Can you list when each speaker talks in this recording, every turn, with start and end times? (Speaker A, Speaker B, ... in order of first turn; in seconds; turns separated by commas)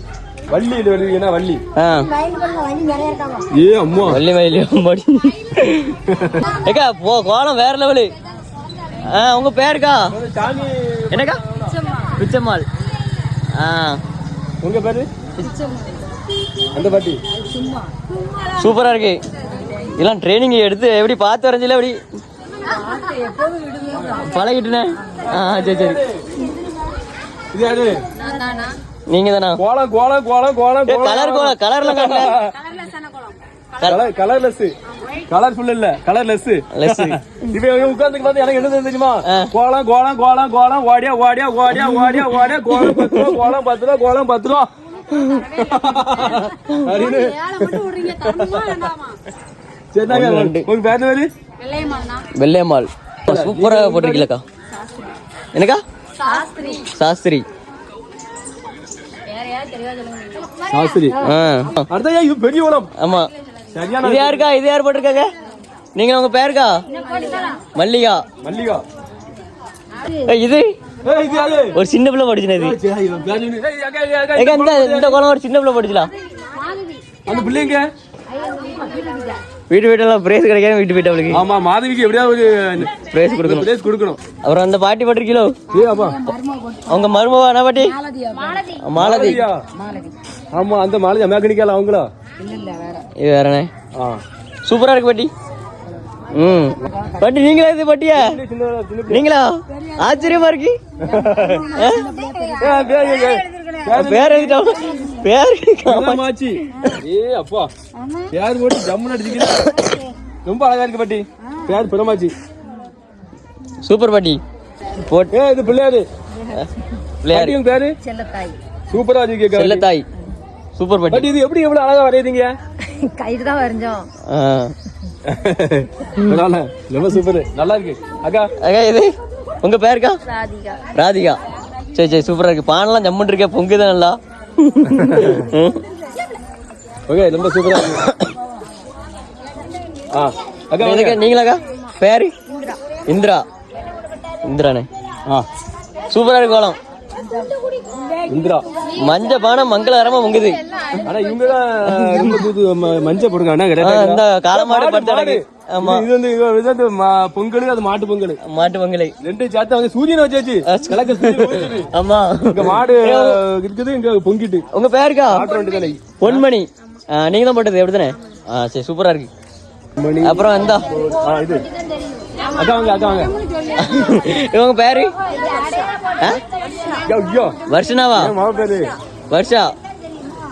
Speaker A: 0.5-1.6, Speaker B: 1.8-2.1, Speaker C: 2.1-3.5, Speaker A: 3.5-4.2, Speaker B: 4.0-8.1, Speaker A: 6.1-6.4, Speaker B: 9.0-10.2, Speaker A: 10.1-11.8, Speaker B: 11.1-11.4, Speaker B: 12.2-12.7, Speaker B: 13.5-14.0, Speaker A: 14.6-15.1, Speaker C: 15.5-15.8, Speaker A: 16.7-17.2, Speaker C: 17.4-17.9, Speaker B: 18.5-19.2, Speaker B: 19.8-22.0, Speaker C: 22.7-24.1, Speaker A: 23.9-24.2, Speaker B: 24.1-26.0, Speaker A: 25.3-26.2, Speaker A: 27.5-28.1, Speaker C: 28.2-28.8, Speaker B: 29.1-29.6, Speaker A: 29.6-32.6, Speaker B: 30.9-32.4, Speaker C: 32.7-33.3, Speaker A: 33.9-34.7, Speaker A: 35.3-44.7, Speaker B: 36.7-37.2, Speaker B: 39.2-39.5, Speaker B: 41.8-43.4, Speaker B: 45.1-45.5, Speaker C: 45.2-45.6, Speaker A: 45.5-49.0, Speaker B: 46.7-47.0, Speaker C: 46.9-49.2, Speaker A: 49.9-51.3, Speaker B: 50.1-50.7, Speaker C: 51.6-52.2, Speaker B: 52.4-54.4, Speaker A: 53.3-54.3, Speaker B: 55.5-55.8, Speaker C: 56.2-56.9, Speaker B: 56.9-57.5, Speaker C: 59.3-60.5, Speaker A: 60.7-61.3, Speaker B: 61.1-61.9, Speaker A: 61.9-62.9, Speaker B: 63.0-63.3, Speaker A: 63.7-64.5, Speaker B: 64.0-65.3, Speaker B: 66.0-66.8, Speaker C: 66.9-67.6, Speaker B: 67.7-68.2, Speaker A: 68.4-68.8, Speaker B: 70.2-70.8, Speaker A: 71.0-71.8, Speaker B: 71.7-72.8, Speaker A: 72.6-75.2, Speaker B: 74.4-76.1, Speaker C: 76.5-77.0, Speaker A: 77.2-77.9, Speaker C: 78.3-79.4, Speaker B: 79.7-81.4, Speaker A: 81.3-84.2, Speaker B: 83.1-83.7, Speaker B: 84.4-85.6, Speaker A: 85.7-86.3, Speaker C: 86.0-87.1, Speaker B: 86.9-88.0, Speaker C: 87.9-88.8, Speaker B: 88.8-89.4, Speaker A: 89.0-89.6, Speaker C: 89.8-90.1, Speaker A: 90.5-92.1, Speaker C: 92.4-93.0, Speaker B: 93.2-93.7, Speaker A: 93.9-94.2, Speaker B: 94.7-95.3, Speaker B: 96.3-98.4, Speaker A: 98.1-99.2, Speaker B: 99.1-100.8, Speaker C: 99.8-100.2, Speaker A: 101.0-101.8, Speaker C: 101.1-104.0, Speaker B: 101.7-102.1, Speaker A: 102.5-104.8, Speaker B: 103.9-106.2, Speaker C: 104.8-105.2, Speaker A: 105.8-107.7, Speaker C: 108.0-108.3, Speaker A: 108.3-109.8, Speaker A: 110.5-112.3, Speaker B: 113.8-114.4, Speaker B: 115.0-115.3, Speaker A: 115.3-116.1, Speaker B: 117.2-117.6, Speaker A: 117.3-118.0, Speaker C: 118.0-118.6, Speaker A: 118.9-119.9, Speaker B: 119.5-120.1, Speaker B: 120.8-121.3, Speaker A: 121.1-122.6, Speaker C: 122.9-124.1, Speaker B: 124.3-124.7, Speaker A: 125.3-128.5, Speaker B: 128.6-130.2, Speaker C: 130.3-130.8, Speaker B: 130.9-131.4, Speaker B: 131.9-135.8, Speaker A: 134.9-135.4, Speaker A: 137.1-138.1, Speaker B: 137.8-138.3, Speaker A: 140.1-141.2, Speaker B: 140.8-142.3, Speaker C: 142.5-142.8, Speaker B: 143.1-143.4, Speaker B: 144.4-144.9, Speaker B: 146.1-146.8, Speaker C: 147.2-149.2, Speaker A: 148.3-148.7, Speaker B: 148.9-150.6, Speaker C: 150.6-151.4, Speaker A: 151.0-158.4, Speaker B: 151.9-152.4, Speaker B: 153.8-156.1, Speaker B: 158.4-159.2, Speaker A: 159.2-161.9, Speaker B: 160.7-163.4, Speaker A: 162.5-164.7, Speaker B: 164.7-165.5, Speaker A: 165.3-166.5, Speaker B: 166.2-169.3, Speaker A: 170.0-171.7, Speaker B: 170.2-170.9, Speaker C: 172.2-174.1, Speaker A: 172.5-173.4, Speaker B: 173.8-175.2, Speaker C: 175.3-177.1, Speaker A: 177.0-177.6, Speaker B: 177.7-178.3, Speaker A: 178.1-178.9, Speaker B: 179.3-179.8